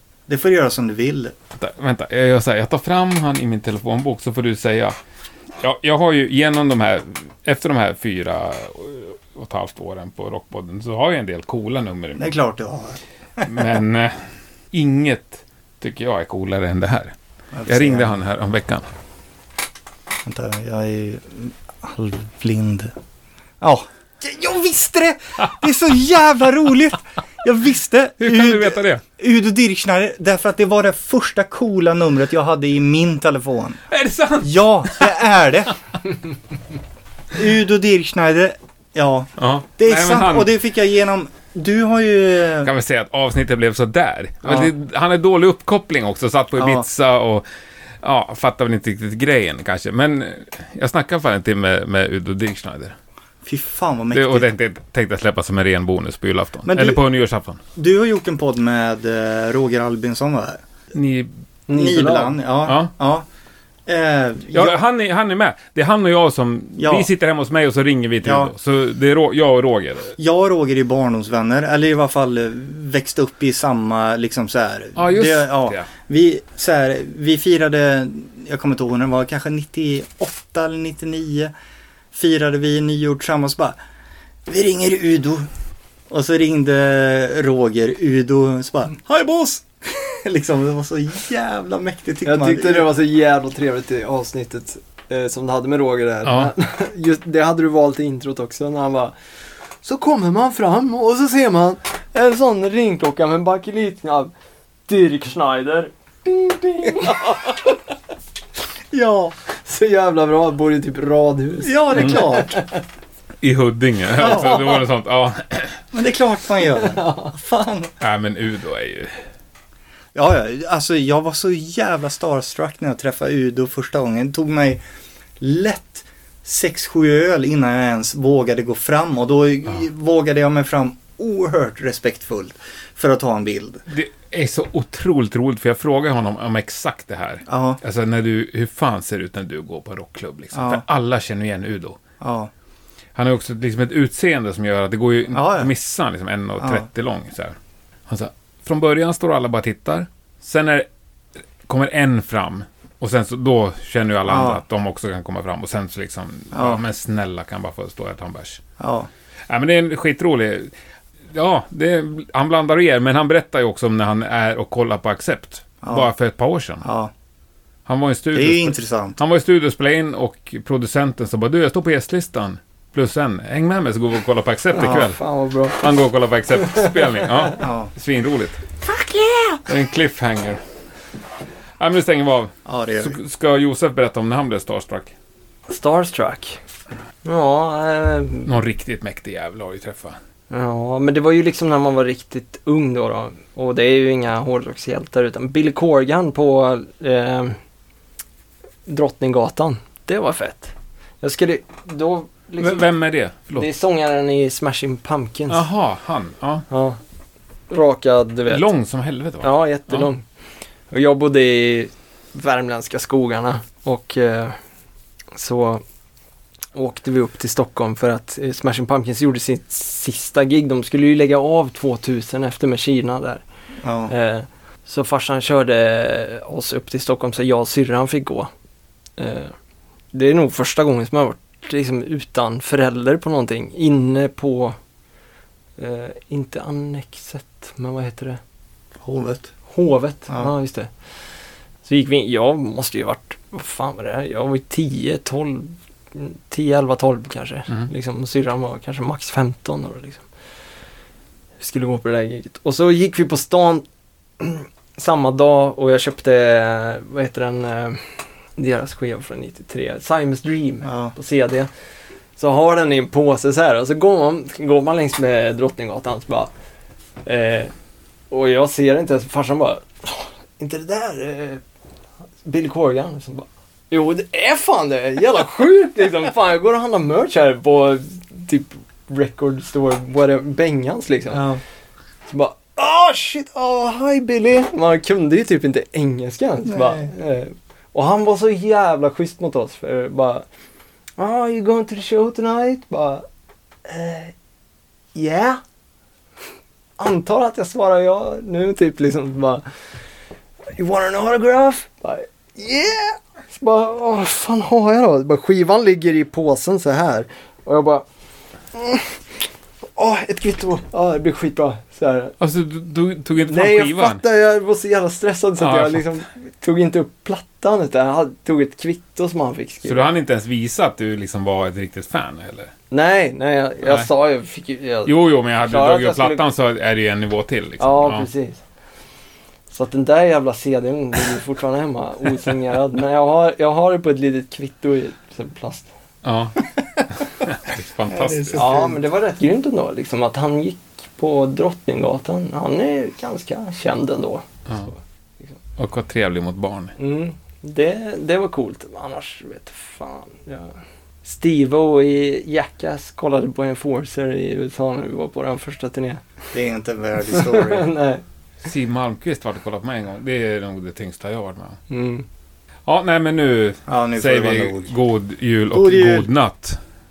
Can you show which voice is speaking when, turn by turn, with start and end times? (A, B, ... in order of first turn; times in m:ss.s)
0:00.3-0:01.4 A
0:01.6-0:05.0 B
0:05.6-0:12.4 B
0:12.2-0:13.6 A
0:13.4-0:14.2 B
0:14.7-0:17.2 B
0:17.5-0:18.2 A
0:17.7-0:18.8 B
0:20.2-0:22.9 A
0:23.6-0:33.8 A
0:28.2-0:29.0 B
0:33.9-0:35.1 B
0:34.4-0:35.8 A
0:37.3-0:42.7 A
0:39.4-0:40.5 B
0:42.6-0:47.4 B
0:44.4-0:44.7 A
0:46.6-0:46.8 A
0:48.0-0:53.0 B
0:53.4-0:54.5 A
0:54.1-0:57.6 B
0:56.7-0:57.0 A
0:57.8-1:00.6 A
1:00.9-1:01.3 B
1:01.7-1:02.4 C
1:01.7-1:03.3 A
1:02.6-1:02.9 B
1:03.9-1:04.8 A
1:04.5-1:10.2 B
1:06.8-1:07.1 A
1:08.2-1:08.5 A
1:10.2-1:21.5 A
1:15.0-1:15.9 B
1:22.1-1:23.8 A
1:24.5-1:25.5 A
1:26.1-1:32.9 A
1:32.2-1:39.2 C
1:36.2-1:36.5 B
1:39.8-1:44.3 C
1:44.9-1:47.8 C
1:47.0-1:47.3 A
1:48.9-1:49.4 A
1:49.6-1:52.8 C
1:51.6-1:52.6 A
1:53.4-1:55.8 B
1:54.2-1:54.6 A
1:54.3-1:54.6 C
1:55.9-1:57.9 A
1:56.8-1:57.3 C
1:58.0-1:59.2 B
2:00.1-2:04.8 A
2:05.4-2:13.8 A
2:13.9-2:22.0 B
2:17.5-2:17.8 A
2:20.5-2:20.8 A
2:22.2-2:22.5 A
2:23.2-2:27.6 B
2:25.3-2:25.7 A
2:26.6-2:26.9 A
2:28.1-2:30.9 B
2:31.7-2:38.6 B
2:34.3-2:34.6 A
2:36.5-2:36.8 A
2:38.8-2:39.1 A
2:39.5-2:40.7 B
2:41.3-2:46.9 B
2:45.8-2:46.1 A
2:46.8-2:47.1 A
2:47.9-2:55.2 B
2:48.4-2:49.2 A
2:54.7-2:55.9 C
2:54.8-2:55.1 A
2:55.7-2:58.6 B
2:57.6-2:57.9 A
2:58.8-2:59.6 C
2:59.7-3:00.6 B
3:01.8-3:05.1 B
3:02.7-3:03.2 A
3:05.7-3:06.6 C
3:07.2-3:08.5 C
3:08.4-3:10.2 B
3:10.5-3:17.6 C
3:18.9-3:22.9 C
3:22.6-3:23.7 B
3:23.6-3:25.6 C
3:25.5-3:26.6 B
3:26.7-3:27.0 C
3:27.7-3:28.7 C
3:28.5-3:30.1 B
3:29.4-3:30.2 C
3:30.9-3:34.6 C
3:35.3-3:35.8 C
3:36.7-3:43.4 C
3:43.8-3:44.1 A
3:44.1-3:48.5 C
3:49.2-3:49.5 C
3:50.1-3:54.8 C
3:55.8-3:58.4 C
3:59.0-3:59.5 A
3:59.7-4:00.9 C
4:01.8-4:10.2 C
4:11.6-4:13.8 C
4:14.4-4:18.0 C
4:18.6-4:21.7 C
4:20.8-4:21.1 A
4:22.4-4:26.5 C
4:27.2-4:27.7 C
4:28.3-4:31.6 C
4:32.4-4:41.5 C
4:41.3-4:41.6 A
4:42.3-4:50.4 C
4:46.7-4:47.1 A
4:51.2-4:53.2 C
4:53.8-4:54.3 C
4:55.2-4:55.6 C
4:57.0-4:59.6 C
5:00.8-5:08.0 C
5:08.7-5:09.4 C
5:10.0-5:12.4 C
5:12.4-5:14.2 B
5:13.5-5:20.1 C
5:15.6-5:16.1 B
5:19.8-5:22.7 B
5:22.9-5:26.4 C
5:25.1-5:28.3 B
5:27.8-5:28.6 C
5:29.7-5:35.9 C
5:36.2-5:38.7 B
5:38.1-5:39.0 A
5:38.6-5:45.6 C
5:45.8-5:46.9 B
5:47.0-5:56.2 C
5:56.5-5:57.9 A
5:57.3-5:58.2 C
5:58.6-6:01.8 B
6:01.9-6:02.3 C
6:02.9-6:06.8 B
6:03.9-6:04.9 A
6:05.7-6:06.3 A